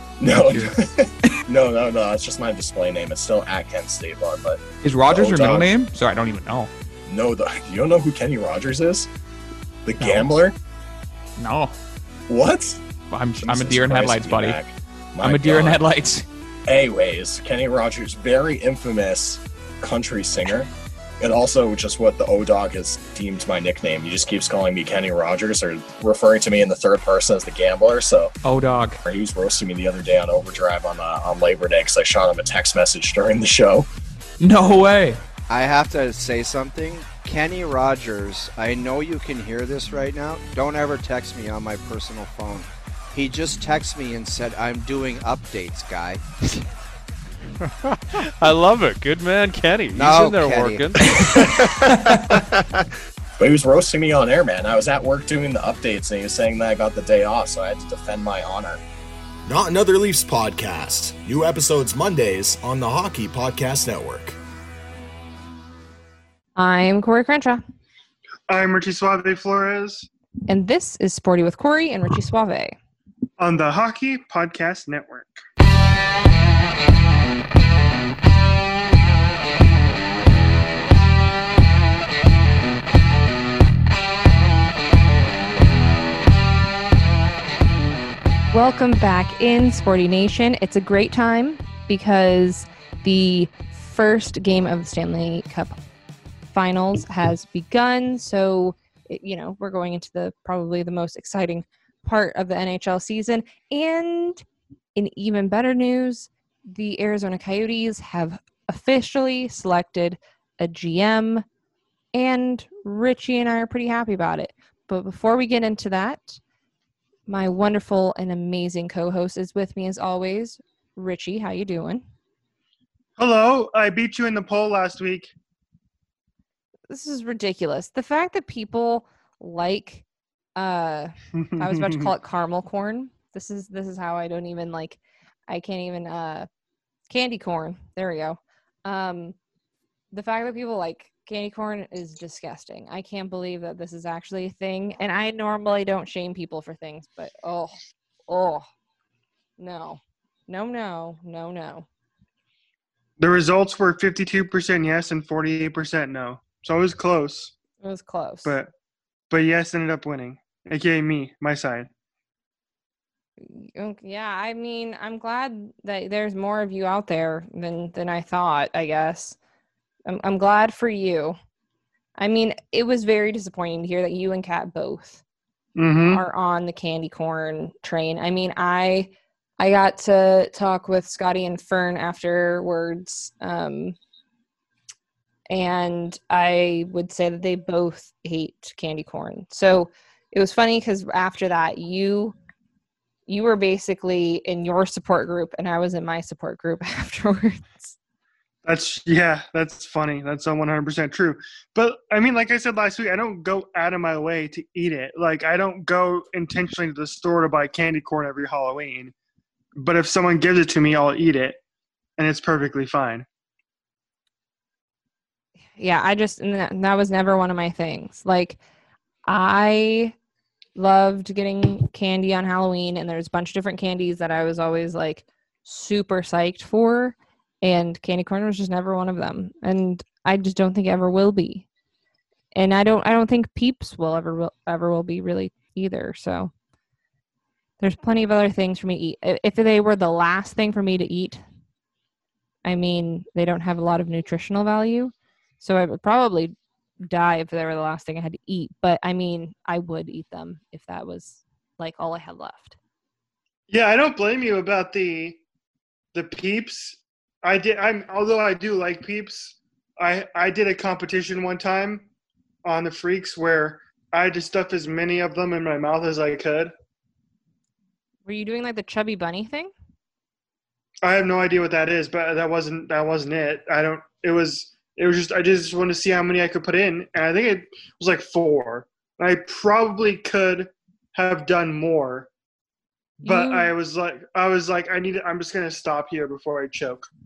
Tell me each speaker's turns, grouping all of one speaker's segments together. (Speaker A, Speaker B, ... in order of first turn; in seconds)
Speaker A: 0.2-5.7, 7.1-9.1, 9.8-10.6, 12.3-12.8, 13.3-15.8, 16.7-20.7, 21.2-28.3, 29.1-33.9, 53.4-58.8
Speaker B: 0.3-0.8, 4.8-6.7, 10.0-10.4, 11.4-11.7, 13.1-14.6, 15.2-16.2, 28.4-29.0, 34.4-35.2
Speaker C: 35.5-46.2, 49.9-52.4
Speaker D: 48.2-51.1
Speaker E: 59.5-64.3
Speaker F: 66.6-67.6, 70.5-72.7, 88.5-95.8, 96.5-104.4, 104.9-111.4, 112.1-116.4, 117.3-122.0, 126.9-130.0, 130.6-136.5, 137.1-139.3, 140.1-147.8, 148.3-148.7, 149.6-151.8, 157.8-158.5, 163.4-169.4, 170.1-171.3, 172.2-175.2, 176.1-183.9, 185.5-192.3, 193.3-197.9, 215.8-218.6, 219.3-220.1, 220.8-231.7, 232.5-236.5, 237.8-241.4, 242.6-246.5, 247.1-252.8, 268.2-269.7, 283.2-283.7
Speaker G: 68.5-70.1, 73.4-75.4, 123.2-125.3, 131.4-132.1, 153.2-157.5, 158.4-158.7, 159.3-161.9, 175.8-176.2, 198.6-209.1, 209.8-211.6, 212.2-213.2, 253.7-255.4, 256.1-262.1, 262.6-266.7, 271.0-282.3, 283.2-287.1